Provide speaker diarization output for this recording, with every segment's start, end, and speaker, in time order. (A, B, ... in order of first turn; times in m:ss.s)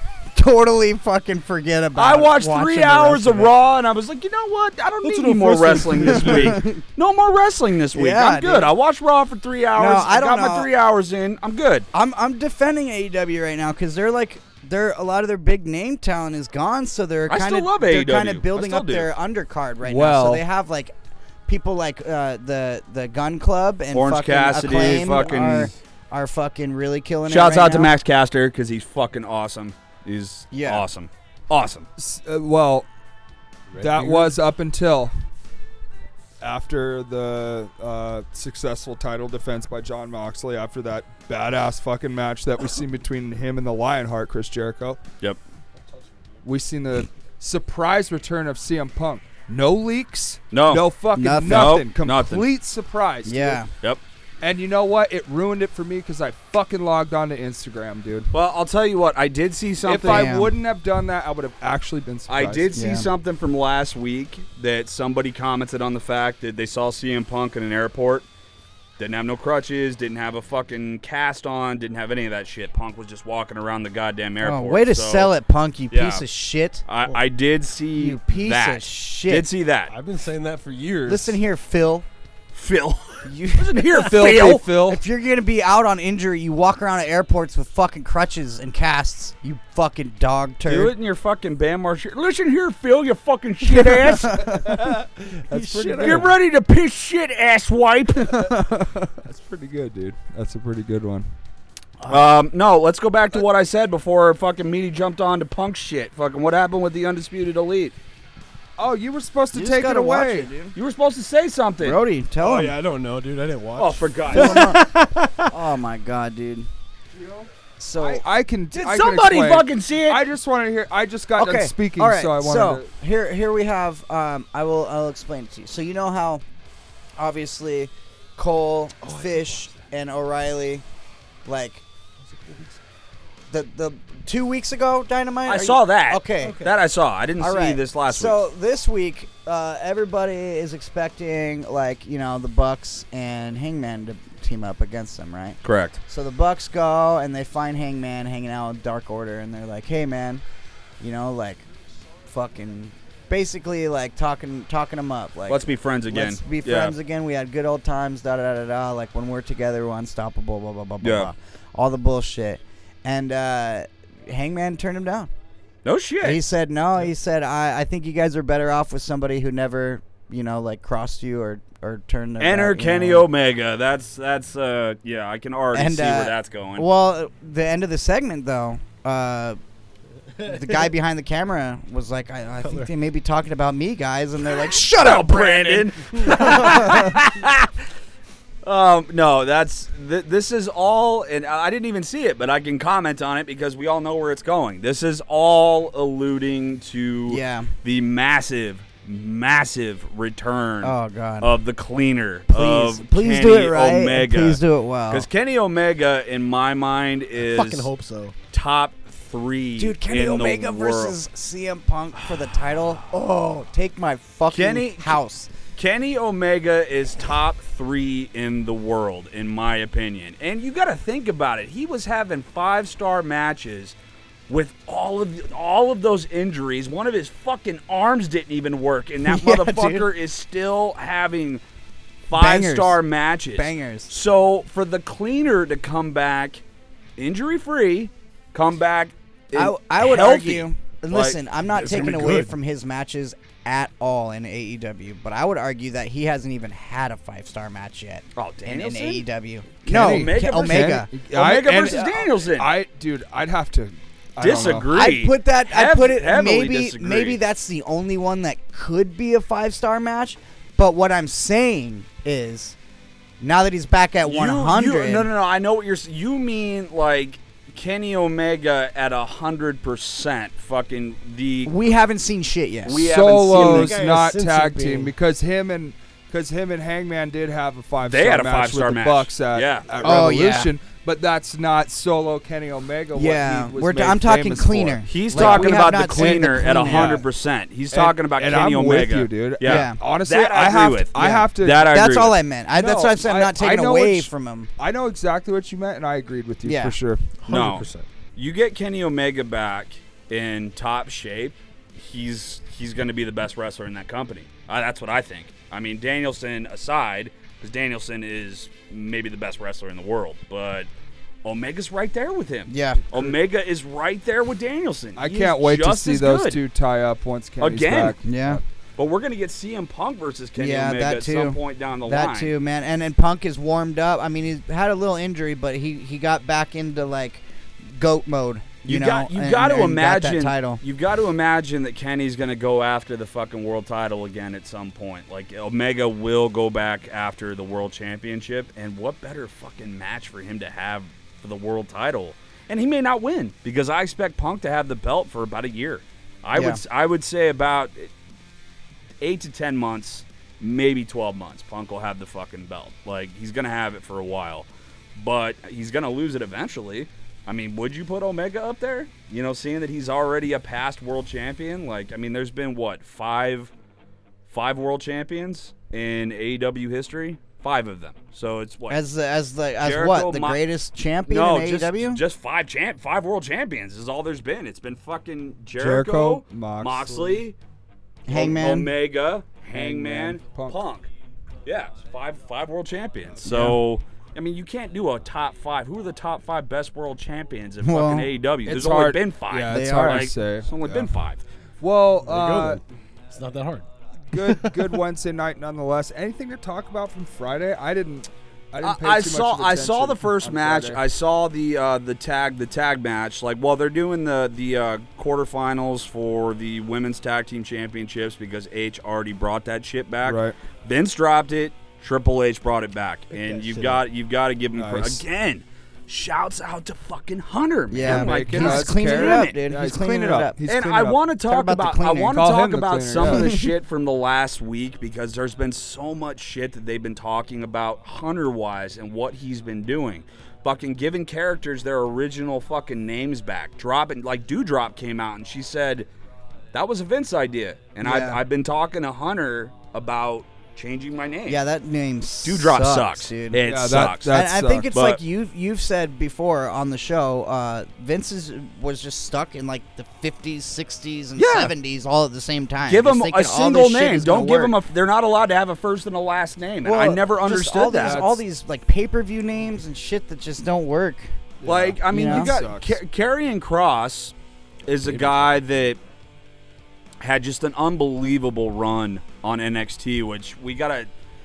0:00.3-0:03.5 A
0:02.0-0:11.9 B
0:05.0-0:06.6 C
0:06.4-0:06.8 A
0:07.9-0:08.7 A
0:09.7-0:10.7 A
0:11.9-0:20.9 A
0:17.3-0:19.1 B
0:19.8-0:20.4 D
0:21.5-0:27.9 A
0:23.9-0:25.7 B
0:24.6-0:25.7 D
0:27.3-0:31.9 B
0:30.5-0:30.8 A
0:32.0-0:32.9 D
0:33.7-0:34.3 C
0:33.8-0:35.1 D
0:36.4-0:45.0 D
0:46.4-0:53.6 D
0:50.5-0:50.9 B
0:51.1-0:51.8 A
0:51.4-0:52.5 B
0:53.2-0:53.7 A
0:54.4-0:58.3 D
0:58.3-1:00.3 B
0:59.8-1:02.7 D
1:00.0-1:00.5 A
1:02.3-1:08.2 B
1:02.7-1:03.1 A
1:09.0-1:15.3 B
1:14.4-1:16.8 A
1:15.9-1:16.2 B
1:16.8-1:19.9 B
1:18.0-1:19.5 A
1:19.9-1:21.4 C
1:21.1-1:22.0 A
1:22.5-1:24.6 B
1:23.2-1:30.9 A
1:23.9-1:25.0 D
1:30.6-1:34.7 B
1:34.1-1:34.7 A
1:34.9-1:36.3 C
1:35.5-1:36.3 D
1:36.0-1:38.5 B
1:38.3-1:38.9 A
1:39.0-1:41.3 D
1:42.1-1:47.9 B
1:48.8-1:50.5 D
1:49.5-1:50.7 A
1:50.7-1:52.0 B
1:51.8-1:52.7 A
1:52.4-1:55.5 C
1:53.8-1:54.7 B
1:54.3-1:54.9 A
1:55.4-1:56.7 A
1:57.8-1:58.2 A
1:58.0-2:02.9 D
1:58.7-2:00.2 B
2:01.4-2:06.4 A
2:07.2-2:10.8 A
2:09.0-2:09.8 C
2:11.4-2:11.8 A
2:12.2-2:12.8 C
2:13.5-2:16.6 A
2:15.4-2:18.4 B
2:16.4-2:16.7 C
2:17.4-2:30.4 A
2:25.6-2:26.0 B
2:31.0-2:31.6 A
2:32.2-2:45.3 A
2:35.5-2:36.9 B
2:41.0-2:41.3 B
2:45.8-2:46.4 B
2:46.2-2:53.3 A
2:52.4-2:56.9 B
2:55.7-2:59.6 A
3:00.4-3:00.9 C
3:00.4-3:07.2 A
3:02.6-3:02.9 C
3:04.9-3:07.7 B
3:06.2-3:06.9 C
3:08.6-3:27.9 B
3:17.3-3:17.7 A
3:20.8-3:21.5 A
3:22.5-3:25.3 A
3:27.4-3:28.4 C
3:28.5-3:31.2 B
3:29.8-3:35.5 A
3:34.5-3:35.2 B
3:35.8-3:43.9 B
3:44.5-3:51.6 B
3:49.2-3:50.1 A
3:52.3-3:56.6 B
3:52.3-3:53.0 A
3:53.5-3:54.1 A
3:57.2-4:01.4 B
3:59.5-4:11.1 A
4:01.7-4:02.6 C
4:08.4-4:09.2 B
4:09.8-4:14.9 D
4:09.9-4:12.7 B
4:14.4-4:17.4 B
4:14.5-4:22.8 A
4:23.4-4:25.3 A
4:24.2-4:31.7 B
4:31.6-4:33.0 A
4:32.8-4:34.0 B
4:33.0-4:47.3 D
4:33.4-4:35.1 C
4:38.0-4:40.2 B
4:40.0-4:40.7 A
4:43.1-4:47.2 A
4:45.1-4:52.4 B
4:47.9-4:51.9 D
4:49.6-4:50.0 A
4:51.2-4:54.7 A
4:52.7-4:57.3 D
4:56.6-4:57.0 A
4:57.4-4:58.1 C
4:57.5-5:10.9 B
5:11.4-5:16.6 B
5:12.7-5:13.0 A
5:15.2-5:18.6 D
5:17.6-5:18.2 B
5:18.2-5:18.6 A
5:19.0-5:22.5 B
5:20.6-5:30.8 A
5:28.8-5:48.1 B
5:46.5-5:46.8 A
5:49.2-6:03.7 B
6:04.5-6:09.0 B
6:08.9-6:12.2 A
6:09.8-6:10.6 B
6:11.3-6:17.6 B
6:15.8-6:17.4 D
6:18.3-6:18.9 A
6:18.3-6:21.1 B
6:19.7-6:20.8 D
6:21.6-6:31.4 B
6:23.4-6:23.8 A
6:27.8-6:28.3 A
6:28.6-6:31.1 D
6:29.7-6:30.3 A
6:31.8-6:32.8 D
6:32.2-6:33.8 C
6:34.3-6:41.0 D
6:34.4-6:34.7 C
6:38.8-6:59.6 B
6:50.2-6:50.6 D
6:53.3-6:54.0 C
6:54.7-6:55.2 D
6:57.9-7:00.6 A
6:58.0-7:01.2 D
7:00.7-7:16.1 B
7:01.4-7:02.4 A
7:02.3-7:03.6 D
7:03.2-7:03.7 A
7:16.7-7:21.6 B
7:18.0-7:18.4 A
7:21.5-7:23.6 A
7:22.4-7:25.2 B
7:23.6-7:24.9 D
7:24.3-7:34.8 A
7:31.4-7:31.7 B
7:32.8-7:38.3 B
7:36.8-7:41.3 A
7:38.0-7:38.4 D
7:41.6-7:43.0 D
7:41.6-7:44.3 B
7:42.1-7:42.5 A
7:44.8-7:46.0 B
7:45.0-7:45.6 D
7:47.2-7:51.1 B